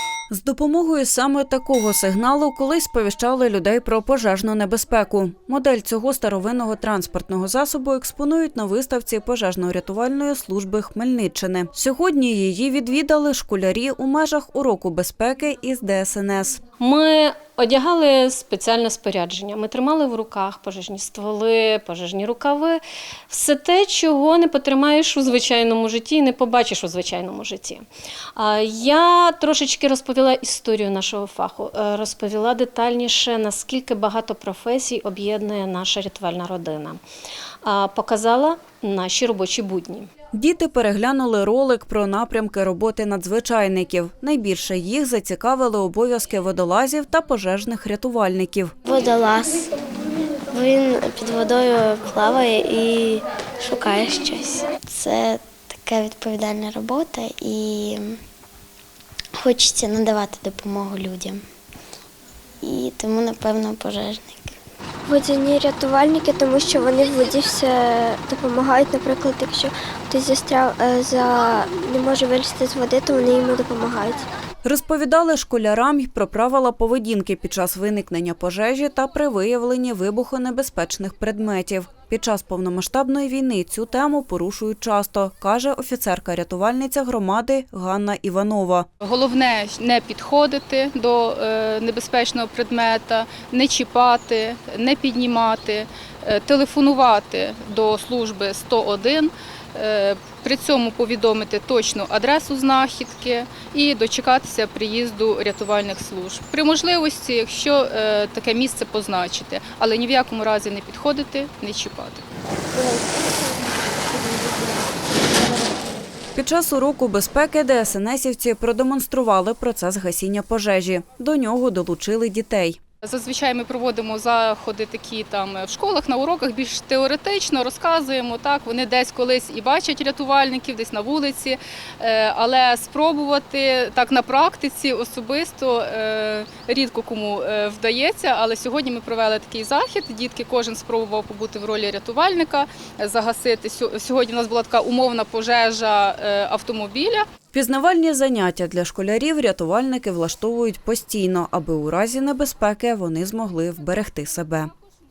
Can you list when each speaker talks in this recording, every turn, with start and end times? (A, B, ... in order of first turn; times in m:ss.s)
0:00.3-0:16.6 A
0:16.8-0:37.0 B
0:37.6-0:40.1 B
0:40.3-0:48.7 A
0:48.8-0:49.7 C
0:50.5-0:58.2 C
0:59.4-1:01.4 C
1:02.6-1:04.5 C
1:05.1-1:14.2 D
1:14.6-1:28.9 A
1:29.0-1:52.2 E
1:52.8-1:53.2 D
1:56.3-2:02.8 A
2:03.0-2:27.2 E
2:27.5-2:34.7 A